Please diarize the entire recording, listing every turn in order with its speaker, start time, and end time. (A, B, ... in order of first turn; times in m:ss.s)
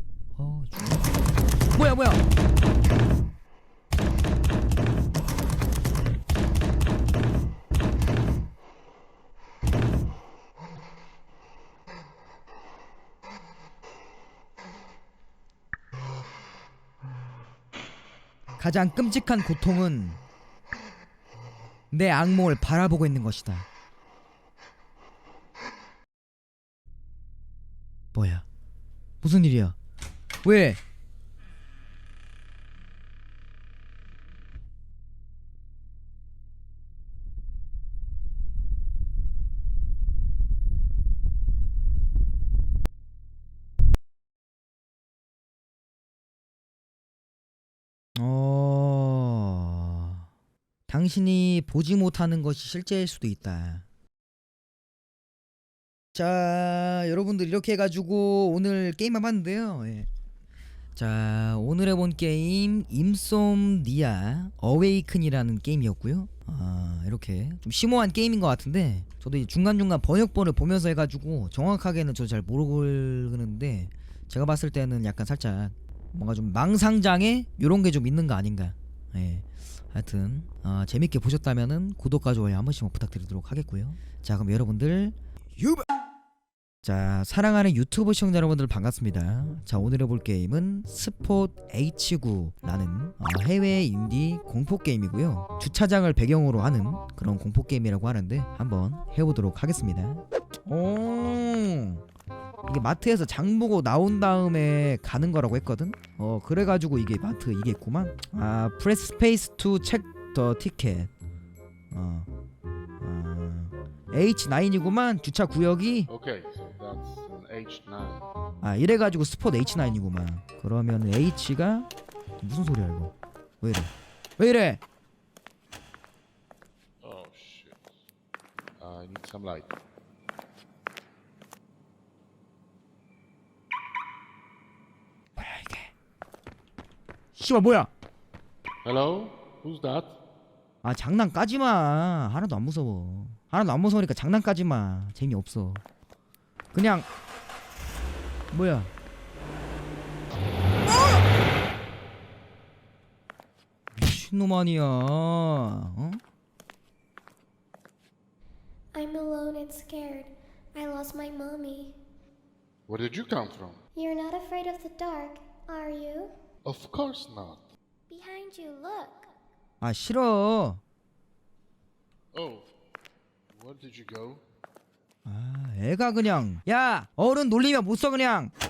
0:00.4-0:01.1 A
0:01.7-0:02.2 A
0:18.6-0:20.2 A
0:21.9-0:23.7 A
0:28.1-0:28.4 A
0:29.2-0:29.8 A
0:30.4-0:30.8 A
0:48.1-0:50.2 A
0:50.9-0:53.8 A
0:56.1-1:00.1 A
1:01.0-1:25.8 A
1:26.8-1:42.0 A
1:42.6-1:51.1 A
1:51.9-1:52.3 A
1:53.0-1:56.1 A
1:56.1-1:58.3 B
1:58.6-2:01.9 A
2:02.4-2:04.8 A
2:07.0-2:07.8 B
2:08.8-2:09.7 B
2:15.4-2:15.9 A
2:17.3-2:17.9 A
2:18.8-2:20.1 B
2:20.8-2:25.8 A
2:26.7-2:27.1 A
2:28.5-2:28.9 A
2:33.9-2:36.2 A
2:38.9-2:42.0 C
2:42.9-2:43.8 B
2:43.9-2:46.3 C
2:46.6-2:47.6 B
2:48.1-2:49.3 C
2:49.8-2:50.8 A
2:52.3-2:52.7 B
2:53.5-2:54.4 B
2:55.2-2:58.5 A